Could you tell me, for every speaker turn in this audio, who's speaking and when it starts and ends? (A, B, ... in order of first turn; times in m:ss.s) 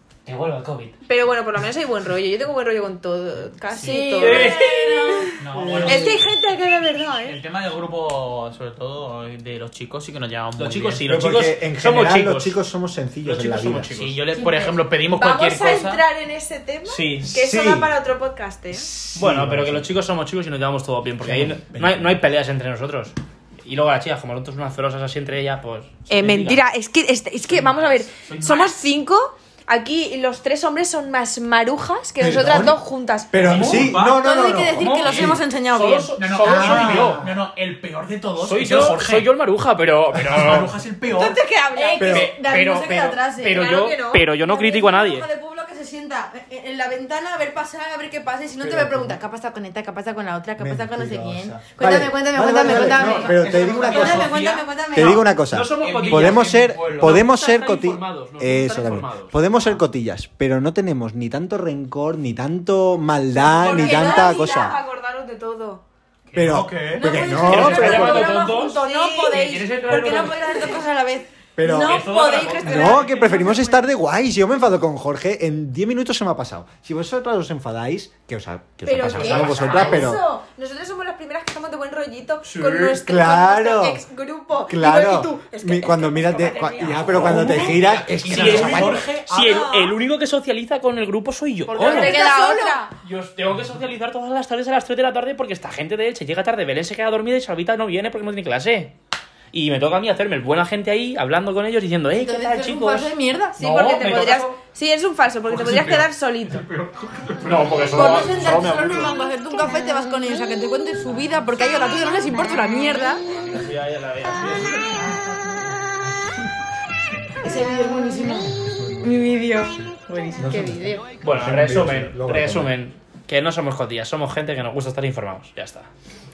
0:00.3-0:01.0 A
0:01.1-0:07.4 B
0:03.7-0:05.4 C
0:04.1-0:04.9 A
0:05.4-0:06.4 D
0:05.5-0:06.2 E
0:07.1-0:11.1 D
0:10.6-0:12.6 A
0:11.1-0:13.9 E
0:13.2-0:14.2 A
0:13.9-0:16.0 D
0:14.4-0:14.7 C
0:15.1-0:18.9 B
0:16.8-0:17.3 A
0:17.3-0:18.0 E
0:18.7-0:19.9 E
0:19.1-0:26.6 A
0:21.2-0:22.2 E
0:26.1-0:33.7 B
0:27.6-0:28.8 D
0:32.2-0:32.8 E
0:33.3-0:35.4 E
0:33.4-0:34.2 D
0:33.4-0:34.0 A
0:34.0-0:36.1 C
0:34.7-0:37.3 A
0:36.2-0:39.3 D
0:36.4-0:37.3 E
0:38.4-0:40.7 A
0:40.3-0:41.4 D
0:41.1-0:42.0 B
0:41.7-0:43.8 C
0:42.0-0:42.3 E
0:42.0-0:45.3 A
0:43.5-0:44.2 B
0:44.4-0:55.3 C
0:48.6-0:49.2 E
0:50.6-0:54.3 E
0:52.7-0:54.8 D
0:54.9-1:04.8 E
0:55.3-0:59.5 A
0:55.8-0:57.2 D
1:03.4-1:05.8 B
1:03.5-1:04.4 C
1:06.3-1:07.1 D
1:06.4-1:08.3 E
1:06.9-1:13.8 C
1:07.2-1:10.7 B
1:07.4-1:10.7 A
1:11.6-1:12.1 E
1:11.6-1:13.5 A
1:12.6-1:20.2 E
1:18.9-1:27.6 B
1:19.1-1:20.2 A
1:19.4-1:19.6 D
1:22.5-1:24.0 E
1:24.7-1:29.1 E
1:26.8-1:29.7 D
1:27.1-1:32.3 A
1:29.5-1:30.0 B
1:31.7-1:32.9 C
1:31.7-1:32.9 B
1:33.0-1:38.9 A
1:39.5-1:44.6 A
1:42.1-1:43.6 C
1:43.6-1:46.7 B
1:45.4-1:48.8 D
1:47.4-1:49.1 A
1:47.9-1:53.2 C
1:53.3-1:55.0 A
1:57.4-2:00.6 C
1:58.5-2:02.8 E
2:00.4-2:01.1 B
2:01.2-2:05.9 A